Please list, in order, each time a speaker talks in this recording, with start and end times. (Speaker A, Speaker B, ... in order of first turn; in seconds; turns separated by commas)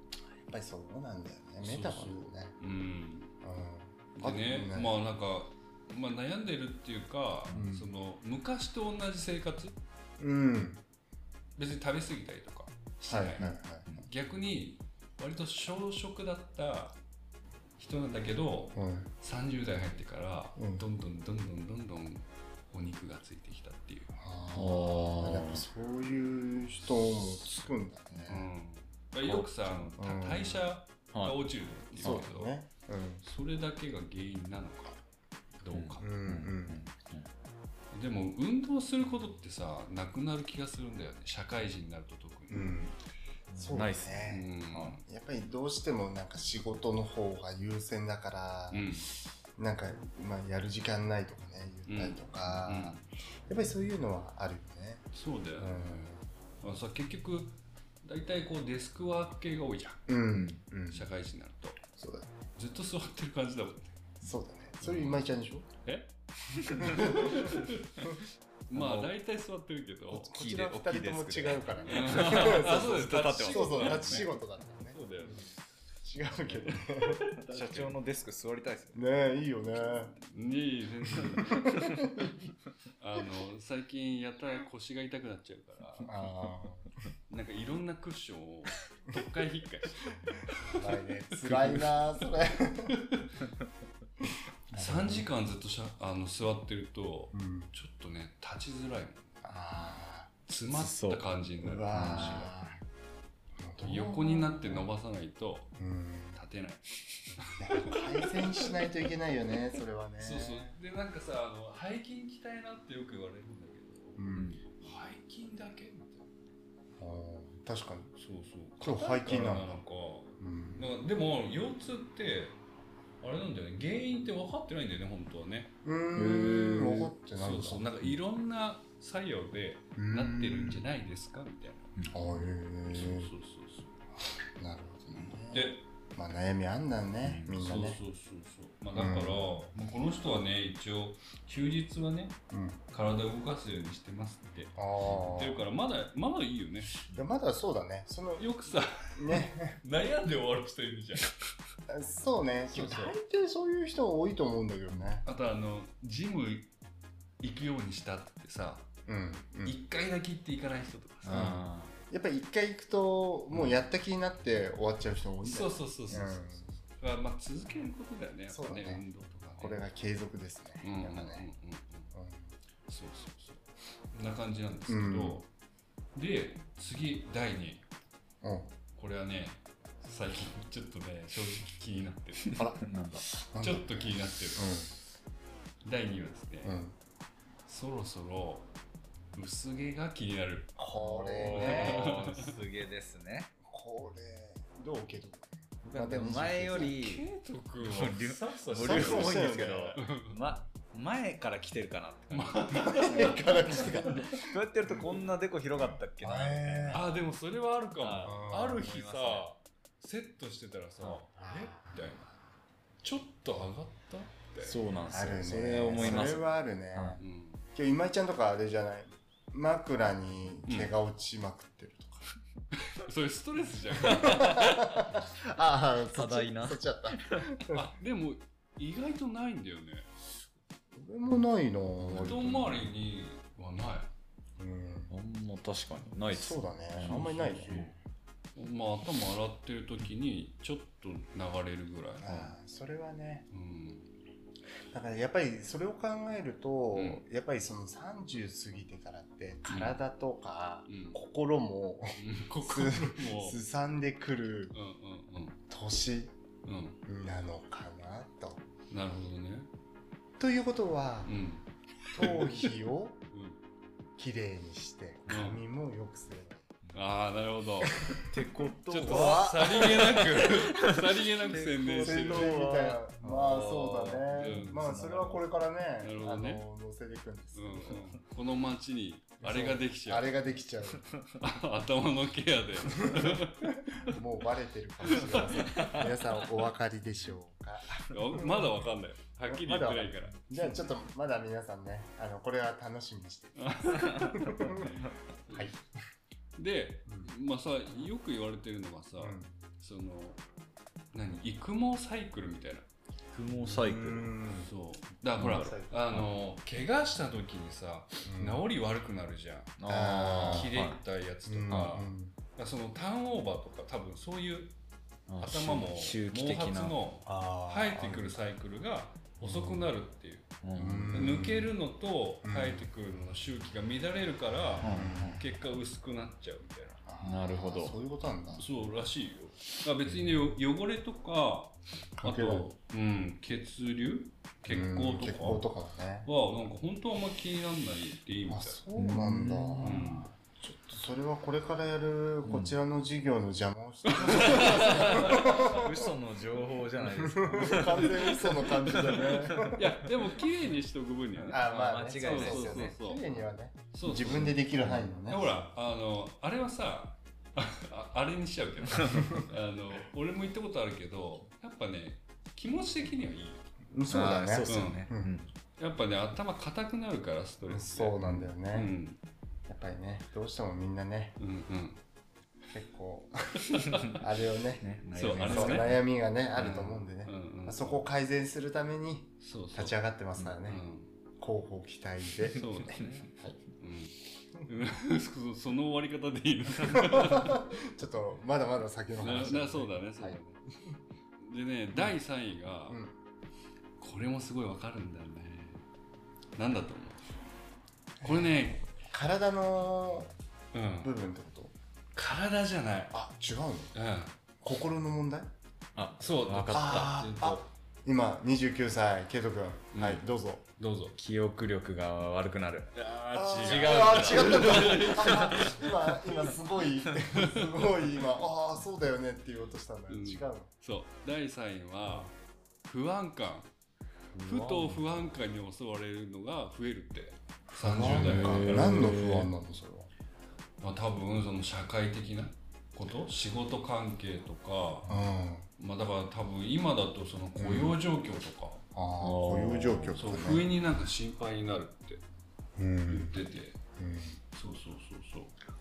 Speaker A: 0.4-2.6, Speaker B: 1.6-3.3, Speaker A: 3.4-4.9, Speaker B: 4.2-9.8, Speaker A: 7.5-7.9, Speaker A: 10.2-10.8, Speaker B: 11.6-17.0, Speaker A: 13.1-13.9, Speaker B: 17.8-24.1, Speaker A: 18.8-19.1, Speaker A: 20.6-20.9, Speaker A: 24.2-28.5, Speaker C: 24.6-25.6, Speaker B: 28.3-32.6, Speaker C: 29.2-29.9, Speaker A: 29.9-30.7, Speaker C: 31.1-32.3, Speaker A: 32.0-33.2, Speaker B: 33.2-35.0, Speaker B: 35.6-36.1, Speaker C: 35.7-37.3, Speaker A: 36.0-36.8, Speaker B: 37.9-42.8, Speaker A: 42.5-42.9, Speaker C: 43.5-45.0, Speaker A: 43.6-55.1, Speaker B: 44.2-45.0, Speaker B: 48.7-49.1, Speaker B: 51.9-53.1, Speaker B: 55.1-56.1, Speaker A: 55.6-56.2, Speaker B: 56.6-60.1, Speaker A: 60.1-61.1, Speaker C: 60.4-60.6, Speaker B: 60.9-61.9, Speaker A: 62.0-62.4, Speaker B: 62.6-63.9, Speaker A: 64.2-65.7, Speaker B: 64.8-65.2, Speaker B: 65.8-68.2, Speaker A: 66.8-68.2, Speaker B: 68.7-70.3, Speaker C: 68.7-69.1, Speaker C: 70.1-74.3, Speaker A: 70.1-75.5, Speaker B: 71.8-74.3, Speaker B: 74.9-75.6, Speaker A: 76.0-77.3, Speaker B: 76.3-78.0, Speaker C: 77.5-79.1, Speaker A: 78.9-80.1, Speaker B: 79.8-82.0, Speaker A: 81.6-82.0, Speaker B: 83.0-86.2, Speaker A: 86.1-86.9, Speaker B: 87.3-92.0, Speaker A: 90.6-92.9, Speaker A: 94.7-95.2, Speaker B: 94.7-99.4, Speaker A: 97.3-97.7, Speaker A: 99.4-100.3, Speaker B: 100.5-102.5, Speaker C: 100.7-101.2, Speaker A: 101.6-102.8, Speaker C: 101.9-102.5, Speaker A: 103.6-104.9, Speaker B: 103.8-105.7, Speaker A: 105.8-106.4, Speaker B: 106.3-108.9, Speaker A: 107.6-110.8, Speaker B: 110.2-114.2, Speaker A: 114.2-114.6, Speaker C: 114.3-114.6, Speaker B: 114.8-116.2, Speaker A: 117.0-118.1, Speaker B: 118.2-122.6, Speaker A: 118.8-119.8, Speaker A: 120.4-120.9, Speaker B: 123.2-125.7, Speaker A: 125.8-127.9, Speaker C: 126.2-127.1, Speaker B: 127.3-131.9, Speaker A: 130.0-130.8, Speaker C: 132.0-132.2, Speaker A: 132.1-133.3, Speaker B: 132.9-133.9, Speaker A: 134.6-138.0, Speaker B: 135.5-135.9, Speaker C: 137.2-137.6, Speaker B: 137.5-142.4, Speaker A: 138.9-139.5, Speaker A: 142.5-142.8, Speaker B: 142.9-147.1, Speaker A: 144.8-145.6, Speaker A: 147.1-148.5, Speaker B: 148.4-151.3, Speaker A: 149.2-149.8, Speaker A: 151.9-155.2, Speaker B: 152.7-153.2, Speaker B: 155.2-156.7, Speaker B: 157.4-158.9, Speaker A: 159.1-159.8, Speaker B: 159.7-161.5, Speaker C: 161.2-161.9, Speaker A: 161.3-166.8, Speaker B: 163.5-163.9, Speaker B: 165.4-169.8, Speaker A: 168.5-169.1, Speaker A: 169.6-171.5, Speaker B: 170.8-172.1, Speaker A: 172.1-172.5, Speaker B: 172.9-175.5, Speaker A: 174.9-175.4, Speaker B: 176.2-177.8, Speaker A: 178.4-178.8, Speaker B: 179.0-182.7, Speaker A: 182.6-184.9, Speaker C: 182.8-183.2, Speaker B: 183.6-184.9, Speaker B: 185.8-186.8, Speaker A: 186.6-187.0, Speaker B: 187.7-188.7, Speaker B: 189.3-190.8, Speaker A: 190.8-192.2, Speaker C: 191.0-193.5, Speaker B: 191.4-192.6, Speaker A: 193.7-197.0, Speaker C: 195.8-197.3, Speaker B: 196.7-200.4, Speaker C: 197.8-207.1, Speaker A: 198.8-200.0, Speaker B: 202.3-204.4, Speaker A: 202.7-207.1, Speaker B: 206.9-212.3, Speaker C: 208.0-209.5, Speaker A: 208.2-208.8, Speaker A: 211.4-212.2, Speaker B: 213.0-214.8, Speaker C: 214.6-217.2, Speaker A: 215.1-222.3, Speaker B: 217.2-217.7, Speaker B: 220.7-221.0, Speaker B: 222.9-224.7, Speaker A: 224.0-227.8, Speaker C: 224.4-224.7, Speaker C: 226.1-227.5, Speaker B: 227.7-230.1, Speaker A: 230.9-232.8, Speaker C: 232.0-232.4, Speaker B: 232.1-234.1, Speaker A: 234.6-235.1, Speaker C: 235.1-237.9, Speaker A: 236.3-237.9, Speaker B: 237.0-237.8, Speaker B: 238.6-242.5, Speaker A: 242.2-243.5, Speaker B: 243.5-244.1, Speaker A: 244.9-254.8, Speaker B: 246.9-247.2, Speaker B: 249.7-250.0, Speaker B: 250.9-251.2, Speaker B: 252.2-253.6, Speaker B: 254.7-255.6, Speaker A: 255.7-256.4, Speaker B: 256.6-257.0, Speaker A: 257.1-258.6, Speaker B: 258.9-259.7, Speaker A: 260.4-261.3, Speaker B: 261.2-262.7, Speaker A: 262.1-263.2, Speaker B: 263.3-263.6, Speaker A: 264.2-266.7, Speaker B: 265.3-265.6, Speaker B: 266.9-268.0, Speaker C: 268.1-275.5, Speaker B: 268.9-272.5, Speaker A: 269.0-270.5, Speaker A: 272.0-278.1, Speaker B: 274.3-274.8, Speaker B: 276.0-276.6, Speaker B: 277.5-280.4, Speaker A: 279.4-281.1, Speaker B: 281.4-284.2, Speaker A: 282.9-288.7, Speaker B: 285.1-286.1, Speaker B: 288.1-290.9, Speaker A: 289.5-295.0, Speaker B: 293.6-295.8, Speaker A: 295.5-295.8, Speaker B: 296.6-300.4, Speaker A: 299.2-299.5, Speaker B: 301.1-302.9, Speaker C: 303.3-304.4, Speaker A: 303.6-304.7, Speaker B: 304.6-314.7, Speaker C: 305.4-306.2, Speaker A: 305.5-306.0, Speaker A: 308.3-308.6, Speaker C: 309.8-311.0, Speaker A: 309.9-310.7, Speaker A: 311.4-312.4, Speaker C: 311.7-312.0, Speaker C: 315.3-317.0, Speaker B: 315.4-320.5, Speaker A: 317.2-318.3, Speaker A: 319.4-319.8, Speaker C: 320.6-321.5, Speaker A: 320.8-321.7, Speaker B: 321.1-327.0, Speaker A: 322.4-322.9, Speaker C: 324.8-325.3, Speaker A: 324.8-325.4, Speaker A: 327.1-328.7, Speaker C: 327.2-328.0, Speaker B: 328.5-335.7, Speaker A: 332.2-332.7, Speaker A: 334.7-336.3, Speaker B: 336.2-338.8, Speaker A: 338.5-346.1, Speaker C: 339.0-340.0, Speaker B: 339.8-340.3, Speaker C: 342.5-342.8, Speaker B: 344.1-345.9, Speaker C: 344.3-349.8, Speaker A: 347.0-350.0, Speaker B: 347.9-353.2, Speaker A: 351.5-355.7, Speaker C: 351.5-352.9, Speaker B: 353.9-354.7, Speaker C: 354.3-355.1, Speaker B: 355.3-363.7, Speaker A: 363.9-365.3, Speaker C: 364.1-365.5, Speaker B: 364.7-365.1, Speaker B: 365.8-369.2, Speaker A: 367.7-368.9, Speaker A: 369.7-371.4, Speaker B: 371.4-372.0, Speaker A: 372.7-374.8, Speaker B: 373.7-374.1, Speaker C: 374.8-376.0, Speaker B: 375.1-375.9, Speaker A: 375.4-380.8, Speaker B: 376.5-378.0, Speaker B: 379.4-380.0, Speaker B: 380.7-381.1, Speaker A: 381.4-383.6, Speaker B: 382.5-383.2, Speaker C: 382.9-383.3, Speaker B: 383.8-387.7, Speaker A: 387.0-390.4, Speaker B: 389.2-390.7, Speaker B: 391.4-393.0, Speaker A: 392.9-393.2, Speaker B: 394.0-395.9, Speaker B: 396.6-397.3, Speaker B: 398.2-398.9, Speaker A: 398.2-400.3, Speaker B: 400.7-401.1, Speaker A: 401.0-401.7, Speaker B: 402.1-403.1, Speaker A: 403.1-403.9, Speaker B: 403.9-404.4, Speaker A: 404.6-405.5, Speaker C: 405.9-407.1, Speaker B: 406.2-407.7, Speaker A: 406.7-410.6, Speaker B: 409.9-410.2, Speaker B: 410.8-411.1, Speaker C: 411.2-412.9, Speaker B: 412.9-415.9, Speaker A: 413.3-420.7, Speaker C: 413.6-415.8, Speaker B: 417.3-417.9, Speaker B: 420.1-422.4, Speaker B: 422.9-423.7, Speaker A: 424.4-425.2, Speaker B: 424.4-429.2, Speaker A: 427.7-430.1, Speaker C: 428.2-429.5, Speaker B: 430.8-435.1, Speaker A: 435.1-435.6, Speaker B: 435.8-438.8, Speaker A: 437.6-438.0, Speaker A: 438.9-440.6, Speaker C: 439.2-440.1, Speaker B: 440.1-442.2, Speaker A: 442.8-443.4, Speaker B: 443.1-443.8, Speaker A: 444.0-444.4, Speaker B: 444.5-445.6